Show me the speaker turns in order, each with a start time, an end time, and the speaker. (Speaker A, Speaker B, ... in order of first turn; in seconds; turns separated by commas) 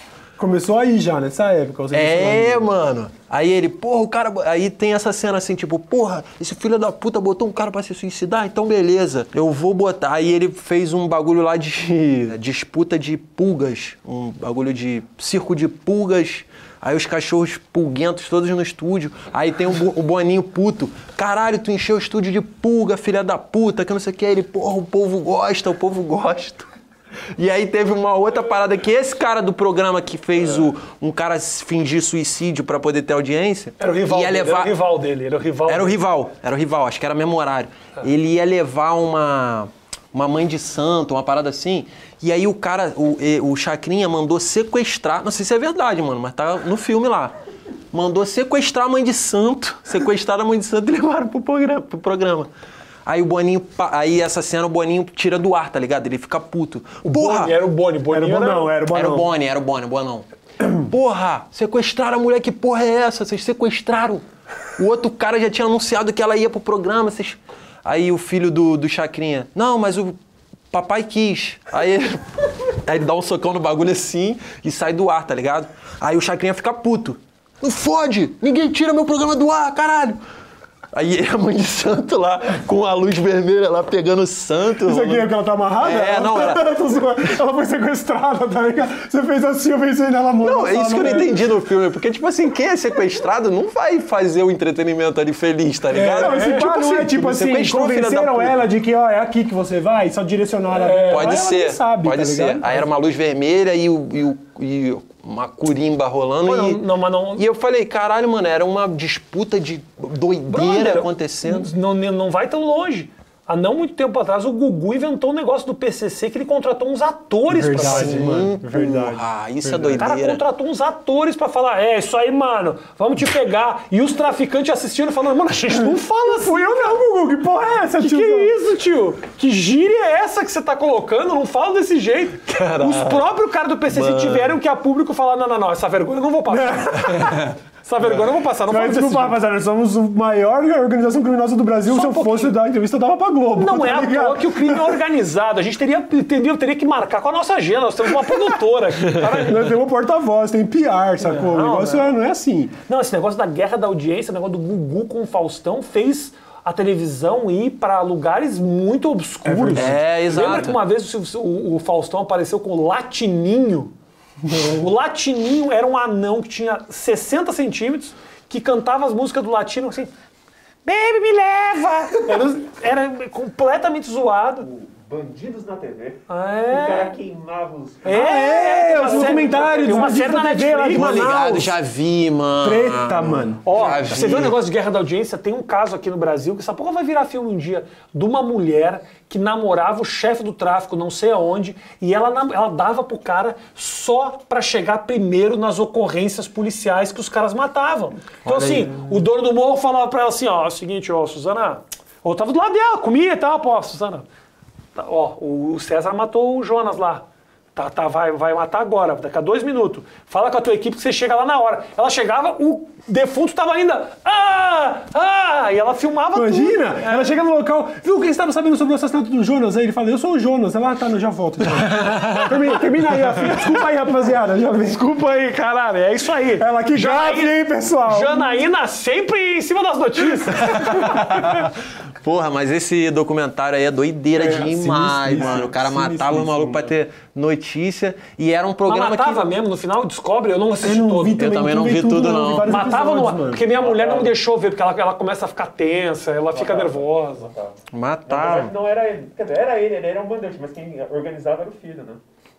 Speaker A: 0.4-2.7, Speaker B: 1.9-26.7, Speaker B: 27.4-34.7, Speaker C: 33.8-36.0, Speaker B: 35.7-47.3, Speaker B: 47.9-52.5, Speaker B: 53.0-57.6, Speaker C: 57.0-58.7, Speaker A: 58.1-59.3, Speaker B: 58.9-64.2, Speaker B: 64.8-70.2, Speaker B: 70.7-80.2, Speaker B: 80.9-85.2, Speaker A: 84.8-91.4, Speaker B: 85.8-86.6, Speaker B: 90.4-98.6, Speaker A: 95.9-102.8, Speaker C: 96.0-96.6, Speaker C: 100.7-101.4, Speaker B: 101.1-106.8, Speaker C: 106.4-107.5, Speaker B: 107.4-111.7, Speaker C: 110.5-118.4, Speaker A: 117.5-120.0, Speaker B: 117.8-120.4, Speaker C: 120.0-127.0, Speaker A: 126.2-128.5, Speaker C: 128.0-139.3, Speaker B: 132.5-133.3, Speaker B: 133.9-134.6, Speaker A: 136.5-137.3, Speaker B: 137.2-137.5, Speaker A: 138.7-145.0, Speaker C: 141.8-142.5, Speaker C: 143.5-149.6, Speaker A: 149.2-152.7, Speaker C: 151.2-152.1, Speaker C: 152.9-163.9, Speaker A: 159.4-160.0, Speaker B: 159.7-160.8, Speaker C: 164.5-170.1, Speaker C: 170.8-174.7, Speaker D: 174.7-178.2, Speaker C: 176.3-177.1, Speaker C: 178.0-181.4, Speaker A: 178.1-181.7, Speaker D: 179.3-179.6, Speaker B: 180.9-184.6, Speaker A: 182.6-184.5, Speaker C: 183.6-204.2, Speaker B: 198.4-198.9, Speaker C: 204.9-217.3, Speaker A: 216.3-225.1, Speaker B: 221.9-222.5, Speaker C: 224.8-231.3, Speaker A: 226.6-228.6, Speaker B: 230.6-239.5, Speaker A: 234.3-236.9, Speaker C: 238.9-241.4, Speaker A: 240.8-243.6, Speaker B: 241.4-242.8, Speaker C: 242.7-247.5, Speaker D: 243.7-244.3, Speaker D: 246.5-247.8, Speaker B: 247.9-248.7, Speaker D: 248.3-252.2